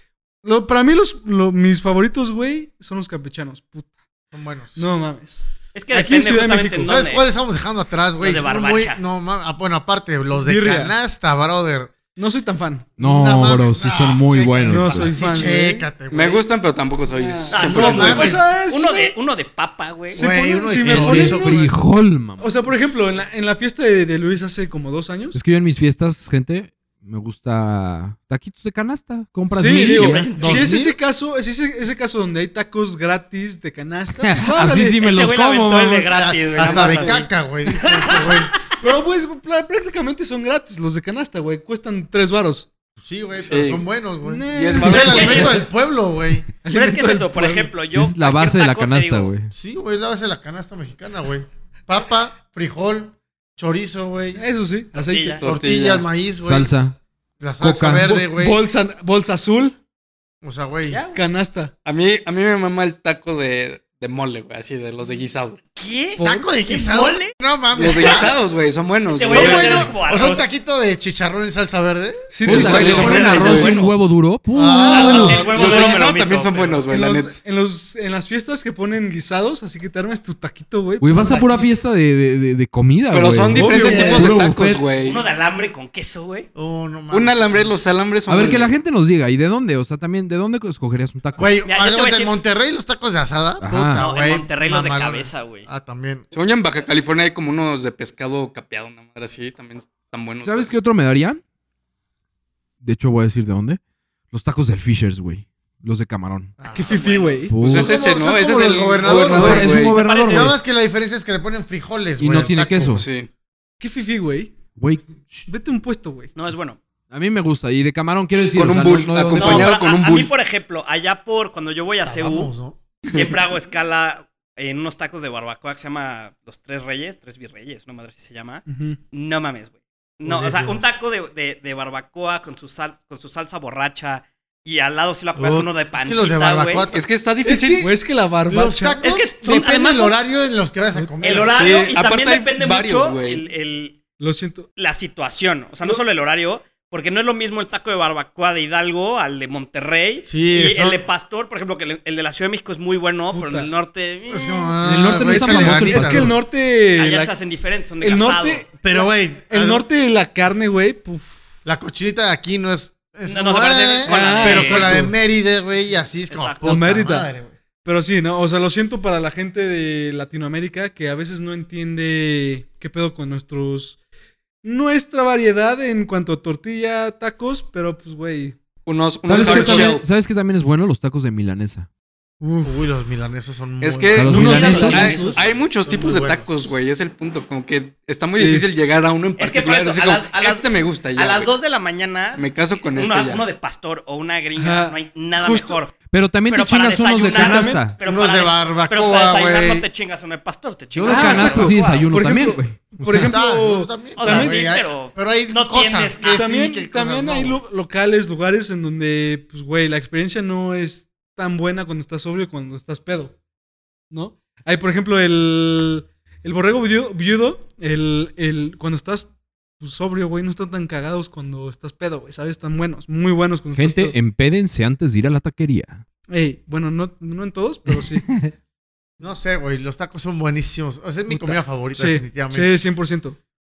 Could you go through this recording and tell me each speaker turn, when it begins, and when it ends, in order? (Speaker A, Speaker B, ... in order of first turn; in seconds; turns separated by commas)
Speaker A: 0.4-3.9, Speaker B: 4.3-4.9, Speaker A: 4.8-6.9, Speaker C: 5.7-7.3, Speaker B: 6.8-11.9, Speaker C: 8.2-9.0, Speaker A: 10.4-10.9, Speaker A: 12.2-12.9, Speaker D: 13.0-15.1, Speaker B: 13.0-16.4, Speaker A: 14.6-15.9, Speaker E: 16.1-18.3, Speaker A: 17.1-19.1, Speaker C: 17.5-20.3, Speaker B: 17.6-18.4, Speaker A: 20.1-21.8, Speaker B: 20.1-21.7, Speaker D: 20.8-22.6, Speaker A: 22.4-25.4, Speaker D: 25.3-30.4, Speaker A: 29.5-35.0, Speaker C: 29.8-30.7, Speaker B: 30.3-31.0, Speaker D: 34.2-36.1, Speaker C: 35.0-38.7, Speaker B: 36.1-38.5, Speaker A: 36.6-37.2, Speaker A: 38.8-42.7, Speaker B: 43.0-46.5, Speaker E: 43.4-43.8, Speaker A: 44.2-45.7, Speaker E: 44.5-45.6, Speaker C: 44.9-45.6, Speaker A: 46.6-47.7, Speaker C: 46.7-49.3, Speaker D: 47.9-49.5, Speaker B: 49.5-54.4, Speaker A: 54.4-55.4, Speaker C: 54.9-55.4, Speaker E: 55.4-56.0, Speaker B: 55.4-56.7, Speaker D: 56.4-57.0, Speaker B: 57.4-58.6, Speaker D: 57.6-58.2, Speaker A: 58.0-59.8, Speaker B: 60.4-61.0, Speaker C: 60.9-61.2, Speaker A: 61.1-61.7, Speaker E: 61.8-65.6, Speaker C: 65.7-67.3, Speaker A: 66.2-66.5, Speaker B: 66.2-68.3, Speaker E: 67.7-69.9, Speaker C: 67.8-68.3, Speaker C: 69.1-70.5, Speaker B: 69.2-72.2, Speaker A: 72.3-73.5, Speaker D: 72.4-75.3, Speaker E: 72.5-73.7, Speaker C: 72.7-74.0, Speaker B: 74.5-76.0, Speaker C: 74.8-76.8, Speaker A: 74.9-75.5, Speaker E: 75.1-77.4, Speaker A: 76.9-81.7, Speaker D: 81.0-84.8, Speaker E: 83.1-85.2, Speaker A: 83.5-84.3, Speaker B: 83.8-84.3, Speaker C: 85.0-86.5, Speaker B: 86.5-87.8, Speaker E: 87.1-88.7, Speaker D: 88.3-91.5, Speaker B: 91.4-96.2, Speaker C: 91.6-92.3, Speaker D: 93.6-94.0, Speaker C: 93.9-95.7, Speaker E: 96.3-100.7, Speaker D: 100.4-101.4, Speaker D: 102.8-103.8, Speaker D: 104.3-106.6, Speaker B: 106.6-113.0, Speaker C: 106.7-107.5, Speaker A: 106.7-107.8, Speaker D: 107.5-108.0, Speaker E: 107.6-110.0, Speaker D: 109.0-110.5, Speaker C: 109.6-110.5, Speaker D: 112.2-113.0, Speaker E: 112.9-113.3, Speaker A: 113.8-114.5, Speaker D: 114.8-115.5, Speaker A: 115.5-116.3, Speaker C: 116.3-116.8, Speaker D: 117.1-119.7, Speaker E: 118.5-120.3, Speaker C: 119.3-122.5, Speaker B: 122.0-122.8, Speaker E: 123.0-123.3, Speaker C: 123.0-136.9, Speaker A: 128.7-129.0, Speaker B: 130.2-131.0, Speaker B: 135.3-141.6, Speaker E: 136.9-137.9, Speaker A: 137.8-139.0, Speaker C: 139.0-140.2, Speaker A: 140.9-141.4, Speaker C: 141.2-144.0, Speaker E: 141.5-143.4, Speaker A: 144.2-144.7, Speaker C: 144.8-154.7, Speaker B: 150.2-151.0, Speaker A: 153.3-153.7, Speaker B: 154.3-156.3, Speaker D: 154.8-156.3, Speaker A: 155.2-157.3, Speaker C: 156.9-158.7, Speaker A: 158.0-161.3, Speaker B: 158.8-159.8, Speaker B: 161.6-167.5, Speaker C: 163.2-164.9, Speaker A: 164.1-165.1, Speaker C: 166.3-166.8, Speaker A: 166.6-167.3, Speaker A: 167.8-174.0, Speaker A: 174.6-178.6, Speaker E: 178.8-180.0, Speaker D: 179.2-181.9, Speaker A: 179.4-179.9, Speaker A: 182.4-182.8, Speaker B: 182.6-186.7, Speaker E: 183.8-191.5, Speaker D: 184.1-185.2, Speaker A: 184.3-185.4, Speaker C: 184.3-185.4, Speaker A: 188.3-188.7, Speaker C: 189.4-195.9, Speaker E: 192.3-193.4, Speaker A: 194.6-195.8, Speaker D: 196.1-198.0, Speaker C: 196.5-202.1, Speaker A: 197.3-197.8, Speaker B: 198.0-199.8, Speaker D: 200.9-203.4, Speaker A: 201.0-204.7, Speaker B: 203.1-207.6, Speaker C: 204.2-206.5, Speaker A: 206.3-213.3, Speaker A: 214.1-224.2, Speaker D: 223.7-226.0, Speaker A: 226.3-228.2, Speaker D: 227.9-228.5, Speaker B: 229.2-232.8, Speaker A: 231.3-233.4